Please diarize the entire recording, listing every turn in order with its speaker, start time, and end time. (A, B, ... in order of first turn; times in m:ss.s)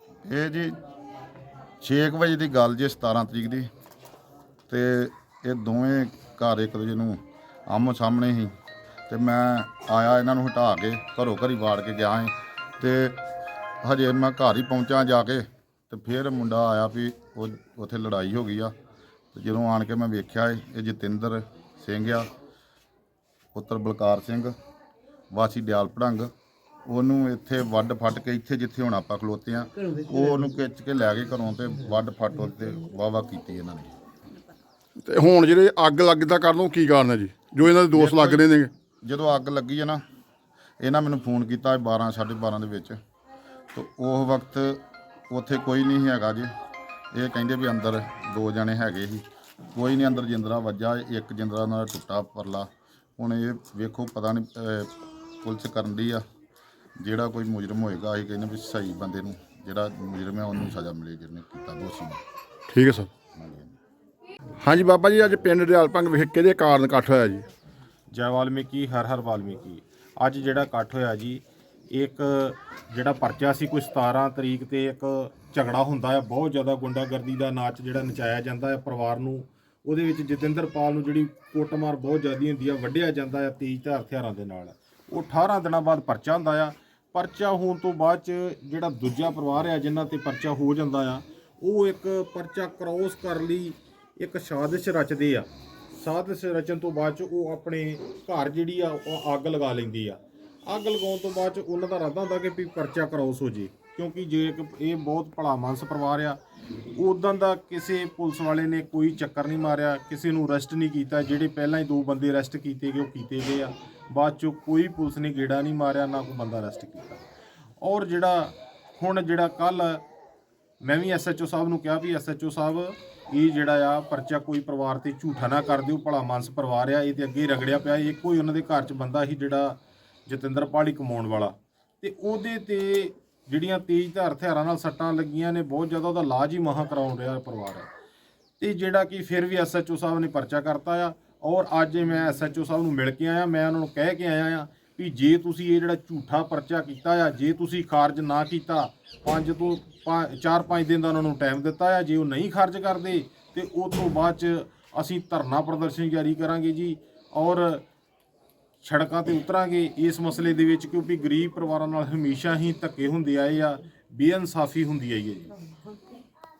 0:00.2-0:00.8 A
0:01.8-0:03.7 A
0:04.7-0:08.5 A
0:09.1-0:13.2 A
0:13.8-0:18.7 A
0:19.3-0:22.3 A
0:23.5-0:24.5 A
0:25.3-0:26.3 A
0:26.9-0:33.9 A
0:35.0-0:38.7 B
0:37.9-0:38.5 A
0:39.0-0:40.0 A
0:40.8-0:43.0 A
0:43.7-0:46.5 A
0:47.1-0:49.2 A
0:49.7-0:56.2 A
0:57.0-1:02.2 A
1:02.7-1:03.1 B
1:03.3-1:03.7 A
1:04.6-1:07.5 B
1:08.1-1:46.4 C
1:47.0-1:57.2 C
1:57.8-2:00.0 C
2:00.8-2:17.9 C
2:18.6-2:37.8 C
2:38.8-2:45.5 C